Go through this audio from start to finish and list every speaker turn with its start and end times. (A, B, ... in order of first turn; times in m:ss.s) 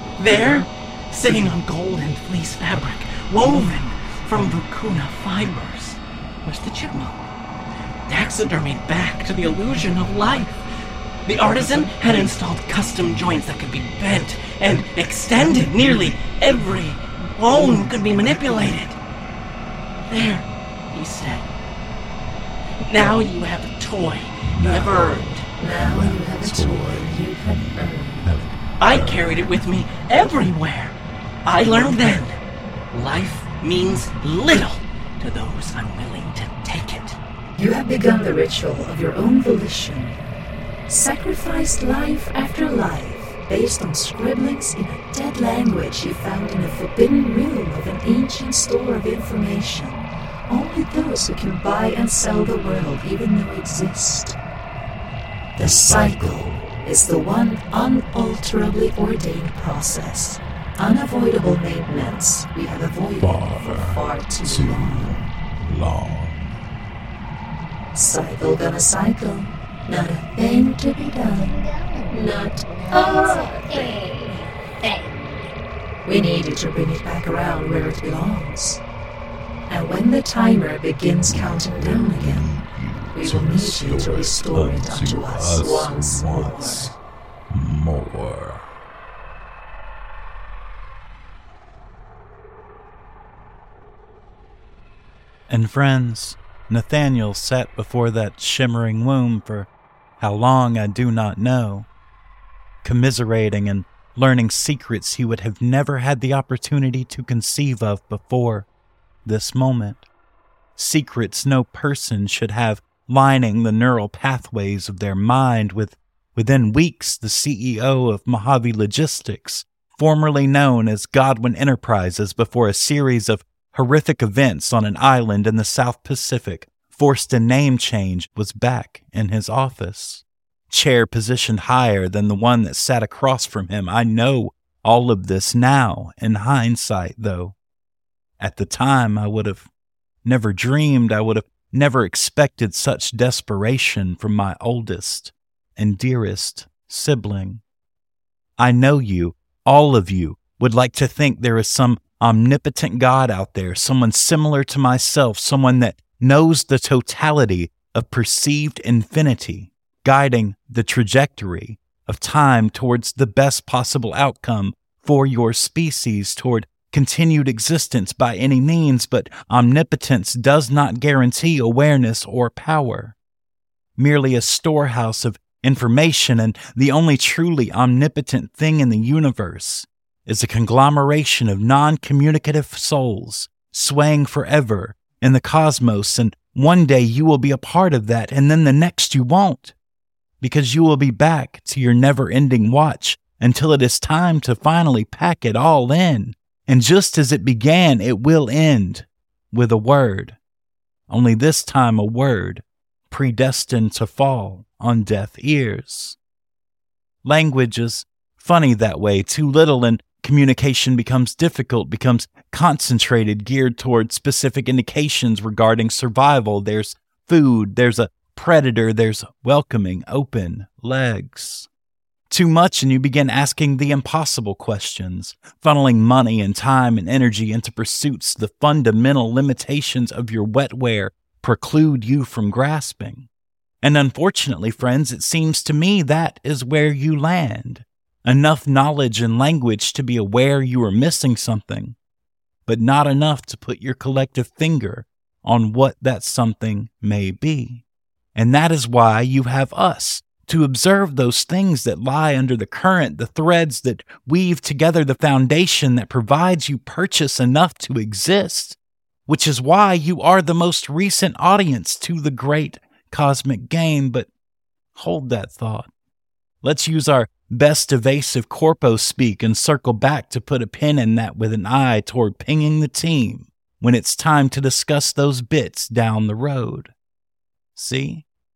0:00.2-0:07.2 A
0:08.1-0:10.6 A
0:11.3-0:19.0 A
0:20.1-0:21.5 A
0:22.8-0:25.4 A
0:24.4-0:29.6 B
0:25.6-0:28.3 C
0:28.8-0:32.4 A
0:32.9-0:37.2 A
0:37.6-0:40.2 C
0:40.9-0:54.4 C
0:55.6-0:56.6 B
0:55.6-1:05.2 C
1:03.2-1:06.5 B
1:07.9-1:14.4 C
1:16.0-1:18.8 C
1:19.7-1:22.5 C
1:21.2-1:27.0 B
1:23.1-1:26.9 C
1:27.5-1:28.7 B
1:35.5-1:41.9 D
1:42.8-1:48.7 D
1:49.2-1:50.1 D
1:50.8-2:17.6 D
2:18.4-2:19.7 D
2:20.2-2:27.6 D
2:28.6-2:53.2 D
2:54.0-3:09.8 D
3:10.4-3:20.4 D
3:21.1-3:26.2 D
3:27.2-3:41.7 D
3:42.3-3:53.3 D
3:53.8-4:02.0 D
4:02.7-4:07.8 D
4:08.4-4:24.3 D
4:25.0-4:25.9 D
4:26.6-4:36.9 D
4:37.8-4:38.2 D